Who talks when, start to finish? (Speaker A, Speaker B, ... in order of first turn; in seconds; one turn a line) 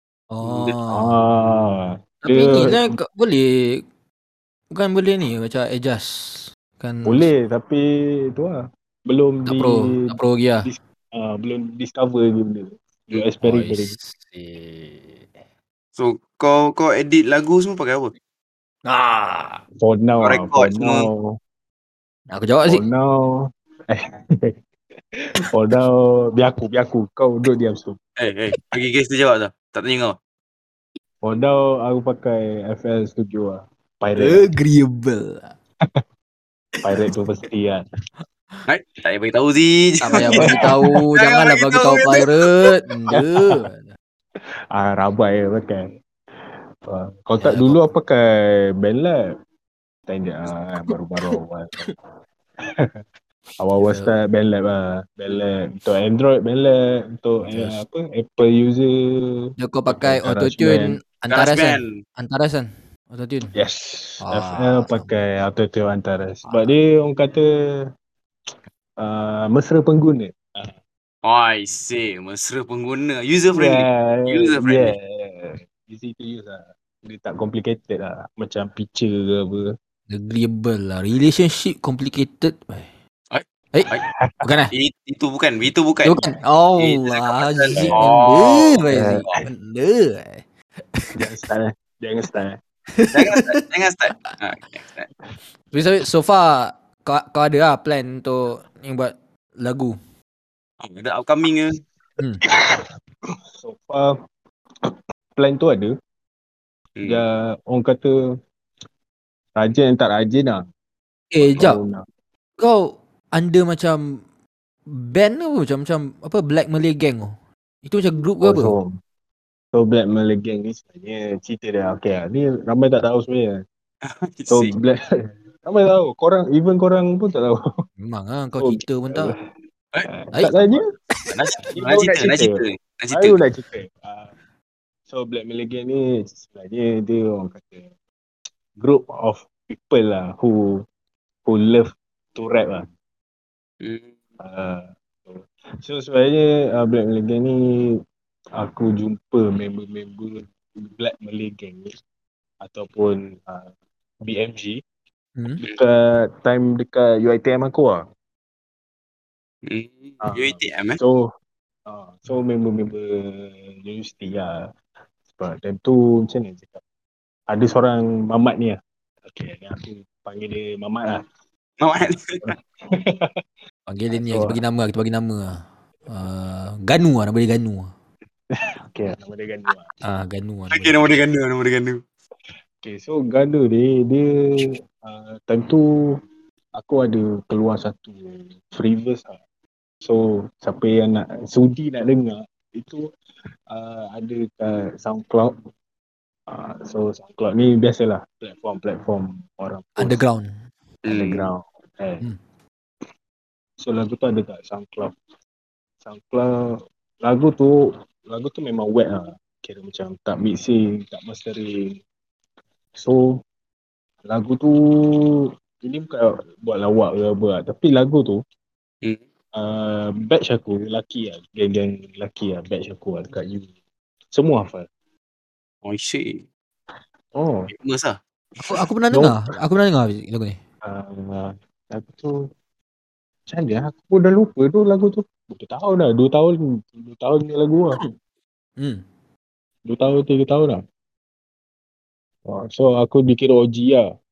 Speaker A: 0.3-1.2
Speaker B: 0.9-3.0
Speaker A: 2.2-3.8
Speaker A: 4.7-7.3
Speaker B: 7.0-14.0
Speaker A: 9.5-10.7
Speaker A: 13.4-15.3
Speaker C: 15.9-18.1
Speaker A: 18.9-19.6
Speaker B: 19.8-21.4
Speaker C: 20.2-21.1
Speaker A: 22.3-22.9
Speaker B: 22.7-24.5
Speaker B: 25.4-28.0
Speaker C: 28.2-30.2
Speaker B: 31.2-34.5
Speaker A: 34.2-35.5
Speaker B: 36.8-37.8
Speaker C: 38.7-42.7
Speaker A: 40.0-44.0
Speaker B: 40.2-40.8
Speaker B: 43.1-43.5
Speaker B: 44.7-45.8
Speaker B: 46.9-49.2
Speaker A: 47.4-47.9
Speaker B: 50.1-51.9
Speaker B: 53.6-61.0
Speaker A: 53.8-54.1
Speaker A: 57.5-57.8
Speaker A: 59.6-63.5
Speaker C: 61.3-62.0
Speaker B: 63.5-67.5
Speaker A: 64.2-65.2
Speaker B: 69.0-70.8
Speaker C: 71.2-75.0
Speaker B: 73.5-79.7
Speaker A: 80.1-82.9
Speaker C: 83.3-84.0
Speaker A: 83.7-84.7
Speaker B: 83.9-84.4
Speaker C: 84.7-86.2
Speaker A: 86.0-91.2
Speaker C: 86.8-89.4
Speaker B: 87.8-88.0
Speaker B: 88.9-89.3
Speaker B: 91.2-92.6
Speaker A: 93.0-93.6
Speaker C: 93.1-95.1
Speaker A: 95.7-100.0
Speaker C: 100.8-101.8
Speaker B: 103.5-104.2
Speaker B: 104.8-105.9
Speaker C: 107.0-107.2
Speaker B: 107.0-108.2
Speaker B: 109.6-110.6
Speaker A: 111.3-111.8
Speaker B: 111.4-112.0
Speaker A: 112.6-114.2
Speaker A: 114.9-118.8
Speaker B: 118.4-119.0
Speaker B: 119.7-123.6
Speaker C: 124.0-124.7
Speaker B: 124.5-125.0
Speaker B: 125.7-127.6
Speaker A: 128.0-129.3
Speaker B: 128.6-129.3
Speaker B: 130.1-130.8
Speaker A: 130.3-131.3
Speaker C: 131.3-133.4
Speaker B: 131.7-132.6
Speaker B: 133.1-134.3
Speaker B: 135.1-137.9
Speaker B: 138.8-140.9
Speaker B: 141.5-142.9
Speaker C: 143.8-144.1
Speaker B: 144.4-148.0
Speaker B: 148.6-151.9
Speaker B: 152.6-153.7
Speaker B: 154.2-154.8
Speaker B: 155.6-158.0
Speaker C: 159.7-161.0
Speaker B: 160.2-161.3
Speaker B: 161.9-164.7
Speaker B: 165.3-166.8
Speaker B: 167.5-171.2
Speaker C: 171.8-172.4
Speaker B: 172.4-173.3
Speaker A: 173.9-177.9
Speaker B: 174.1-174.6
Speaker B: 178.5-179.9
Speaker A: 180.0-181.0
Speaker C: 180.7-182.0
Speaker B: 182.8-186.2
Speaker B: 186.8-189.4
Speaker B: 190.0-193.1
Speaker B: 193.7-195.5
Speaker B: 196.5-200.2
Speaker A: 200.0-200.6
Speaker C: 201.1-201.5
Speaker B: 201.1-202.2
Speaker B: 203.8-205.1
Speaker B: 206.0-212.0
Speaker B: 213.0-213.4
Speaker B: 214.2-218.4
Speaker B: 219.6-223.7
Speaker B: 224.3-224.9
Speaker C: 225.8-226.4
Speaker B: 227.3-227.7
Speaker C: 227.7-228.2
Speaker A: 228.6-230.6
Speaker B: 230.8-232.4
Speaker B: 233.5-238.0
Speaker B: 239.9-240.8
Speaker B: 242.5-244.1